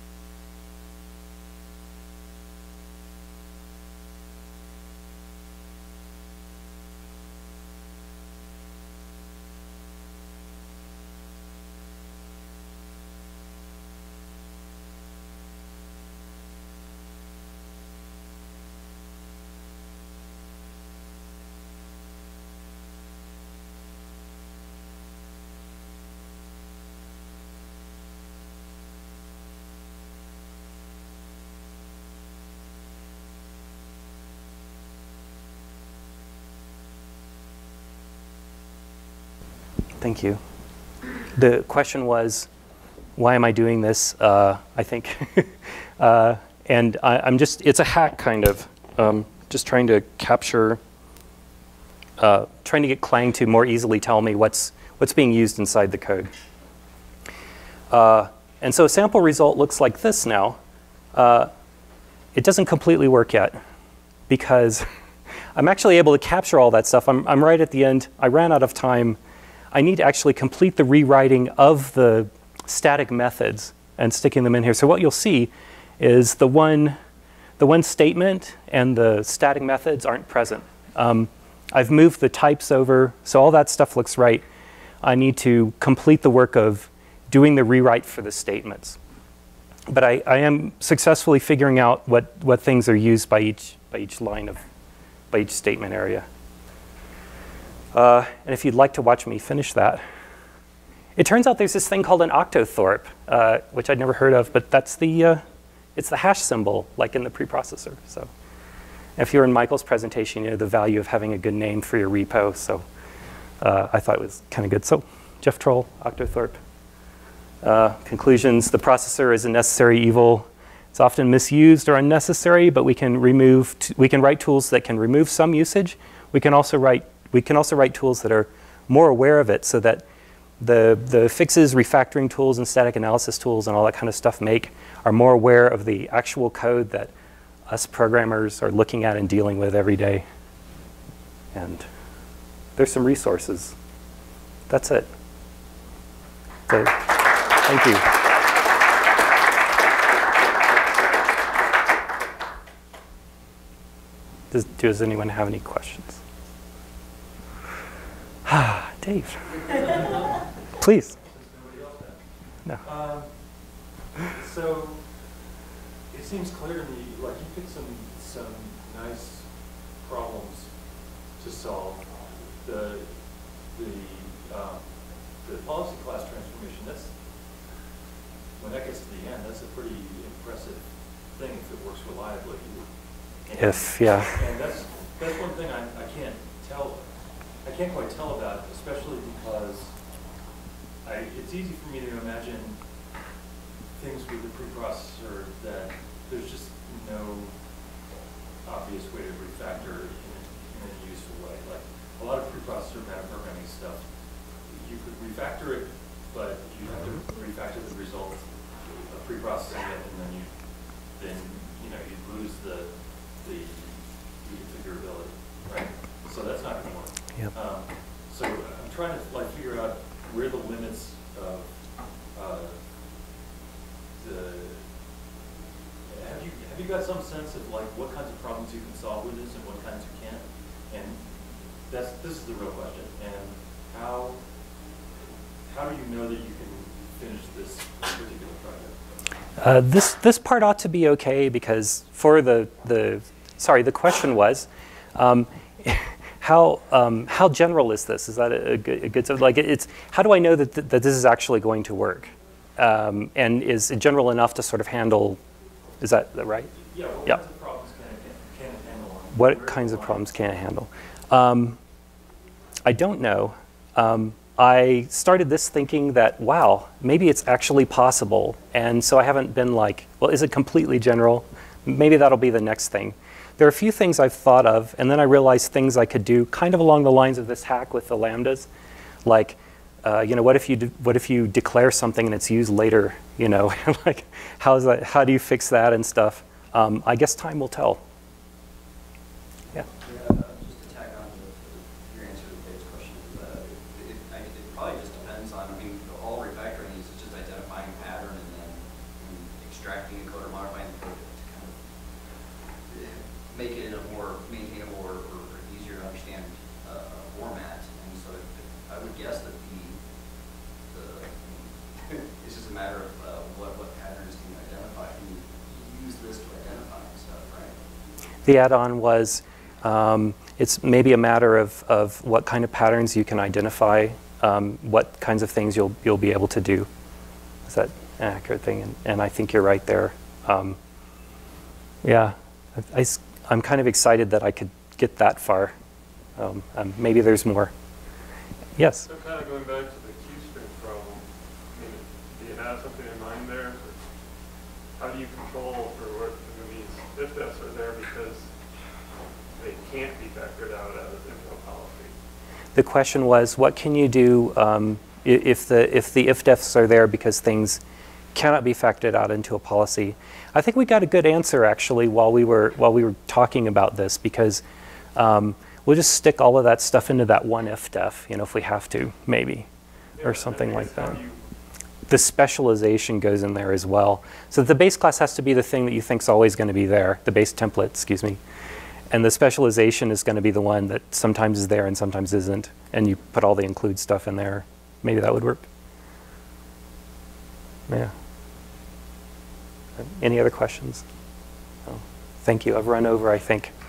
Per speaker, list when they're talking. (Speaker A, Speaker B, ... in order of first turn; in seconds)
Speaker A: 40.0-40.4, 41.4-42.5, 43.2-50.8, 52.2-56.3, 57.9-60.6, 61.1-61.5, 62.3-63.6, 64.3-64.9, 65.5-69.2, 69.7-77.0, 77.6-84.4, 85.0-89.0, 89.9-94.6, 95.3-96.2, 97.9-100.0, 101.2-105.4, 105.9-108.3, 109.2-112.8, 113.6-116.6, 117.6-130.0, 130.6-137.1, 137.7-140.2, 141.5-141.8, 142.8-143.7, 144.7-145.1, 146.7-148.3, 154.5-156.2, 158.4-159.4, 160.8-161.1, 183.6-184.4, 239.6-255.4, 256.0-256.7, 259.3-261.8, 262.8-278.7, 279.2-288.0, 318.4-326.9, 327.7-330.8, 332.0-335.7, 336.4-337.7, 338.8-339.1, 352.7-357.8, 358.3-364.6, 365.1-369.7, 370.2-371.2, 372.1-378.4, 379.1-385.6, 390.0-391.0, 391.9-393.7
Speaker B: 159.6-160.5, 161.0-162.2, 162.8-163.3, 164.2-165.1, 166.1-170.7, 171.4-173.2, 173.7-177.1, 178.6-182.9, 183.5-187.1, 187.6-189.9, 191.0-192.8, 193.9-197.5, 198.6-204.0, 204.6-210.5, 211.1-221.7, 222.3-222.8, 224.2-224.8, 226.1-234.4, 235.7-239.0, 256.9-260.4
Speaker C: 289.9-301.8, 302.9-310.0, 310.9-317.8
Speaker D: 339.1-343.9, 345.0-348.5, 349.6-352.1, 370.2-371.4